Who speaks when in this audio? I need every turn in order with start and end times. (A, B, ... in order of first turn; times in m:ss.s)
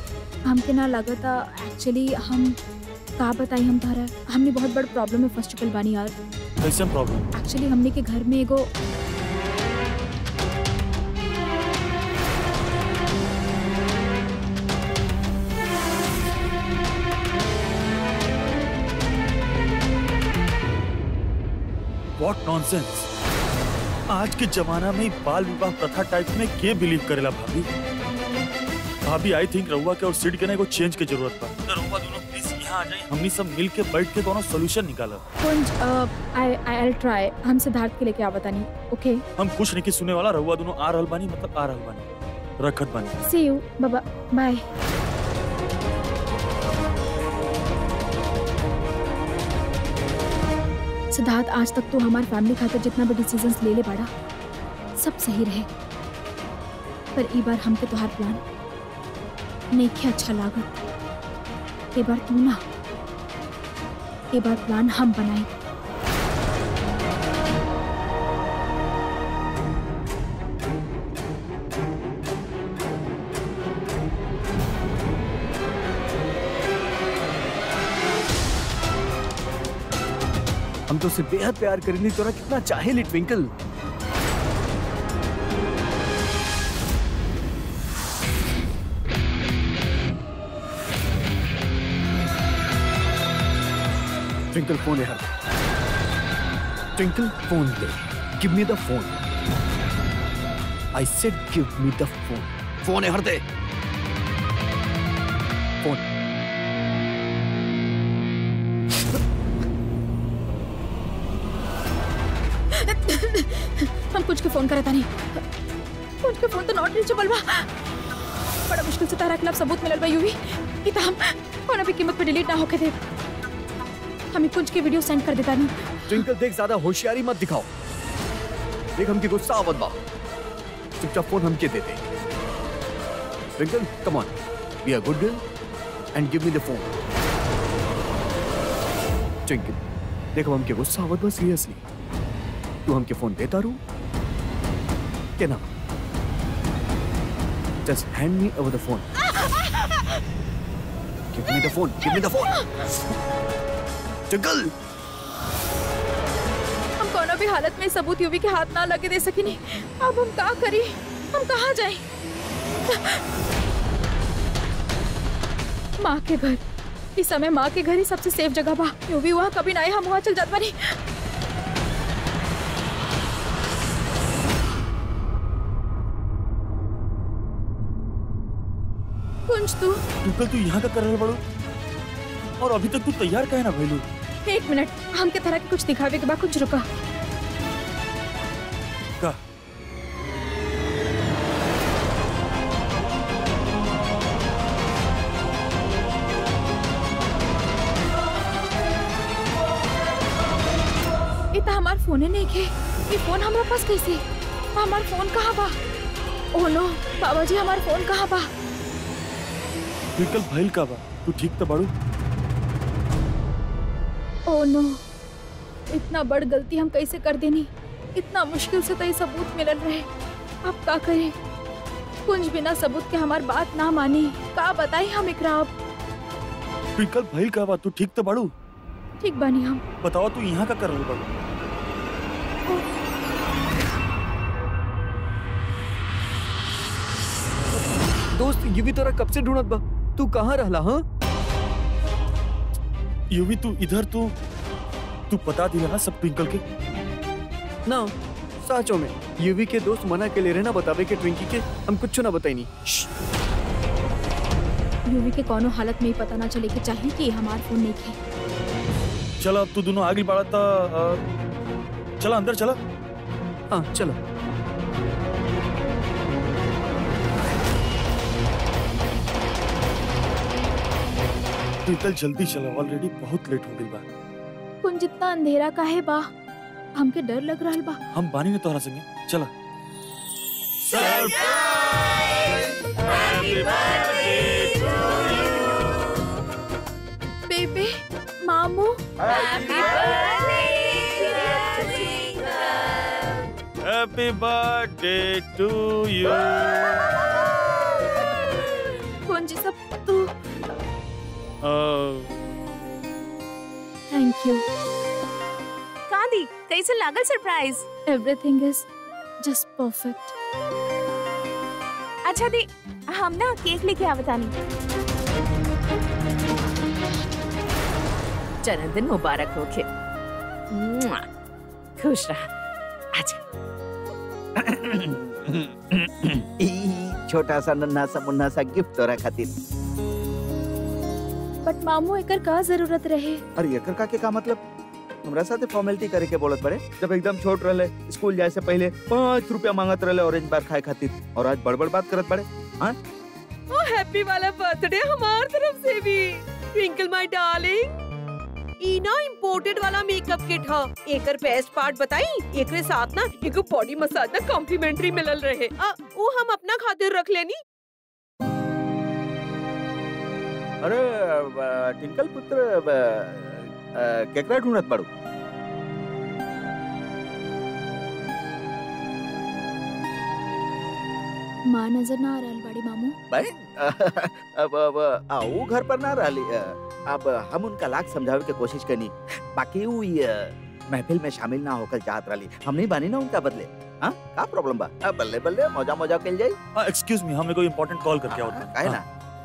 0:00.5-0:02.6 A
0:03.2-0:06.2 A
0:06.6-0:07.3 B
0:07.4-0:08.7 A
0:22.2-0:23.1 B
0:24.1-0:27.7 B
0:29.0-0:35.2 B
0:35.4-0:39.2 A
0:39.4-0:42.1 B
0:42.6-0:43.2 B
0:43.2-0:44.6 A
0:51.1-0:54.1 A
0:55.0-0:55.7 A
0:57.2-0:58.4 A
0:59.7-1:00.7 A
1:01.9-1:02.6 A
1:04.3-1:05.5 A
1:20.9-1:23.5 C
1:34.5-1:35.3 C
1:37.0-1:39.2 C
1:41.0-1:43.4 C
1:52.7-1:55.4 A
1:56.2-1:57.7 A
1:58.7-2:03.0 A
2:04.3-2:06.3 A
2:06.1-2:07.7 C
2:09.0-2:10.0 C
2:11.0-2:12.1 C
2:13.6-2:15.4 C
2:16.2-2:17.0 C
2:19.5-2:19.8 C
2:20.4-2:21.8 C
2:22.9-2:23.8 C
2:25.4-2:25.7 C
2:27.8-2:29.1 C
2:31.3-2:32.5 C
2:34.3-2:34.7 C
2:37.0-2:42.0 A
2:42.9-2:43.2 A
2:46.0-2:46.6 A
2:47.2-2:51.0 A
2:59.5-3:00.0 A
3:00.2-3:01.4 B
3:02.6-3:04.1 B
3:04.5-3:06.9 A
3:21.6-3:24.2 A
3:24.8-3:25.8 A
3:26.6-3:28.5 A
3:30.2-3:31.9 B
3:34.5-3:35.0 A
3:35.9-3:40.1 A
3:40.6-3:41.3 A
3:42.3-3:45.7 A
3:47.0-3:48.5 B
3:49.2-3:49.8 A
3:50.0-3:51.5 B
3:58.3-4:01.0 C
4:03.3-4:04.3 B
4:05.3-4:06.6 B
4:07.9-4:13.1 C
4:15.1-4:18.2 A
4:19.4-4:21.2 B
4:22.2-4:22.8 B
4:23.7-4:24.2 C
4:31.8-4:34.0 B
4:34.8-4:36.3 A
4:37.0-4:38.0 A
4:38.1-4:39.5 B
4:40.8-4:46.2 B
4:47.5-4:49.0 A
4:49.2-4:49.7 D
4:49.6-4:52.4 E
4:53.8-4:57.4 B
4:59.3-5:00.3 A
5:01.6-5:02.4 B
5:04.1-5:04.6 A
5:06.1-5:07.9 E
5:08.1-5:08.9 A
5:09.4-5:10.3 A
5:12.3-5:14.5 E
5:18.6-5:19.9 E
5:20.7-5:21.3 E
5:22.0-5:22.5 E
5:23.1-5:23.4 E
5:24.6-5:29.5 D
5:31.6-5:33.4 A
5:33.6-5:34.6 D
5:35.2-5:43.0 D
5:43.7-5:48.0 F
5:48.8-5:57.6 F
6:00.8-6:05.1 D
6:11.7-6:13.2 A
6:13.3-6:26.6 D
6:26.8-6:29.0 B
6:28.3-6:29.0 D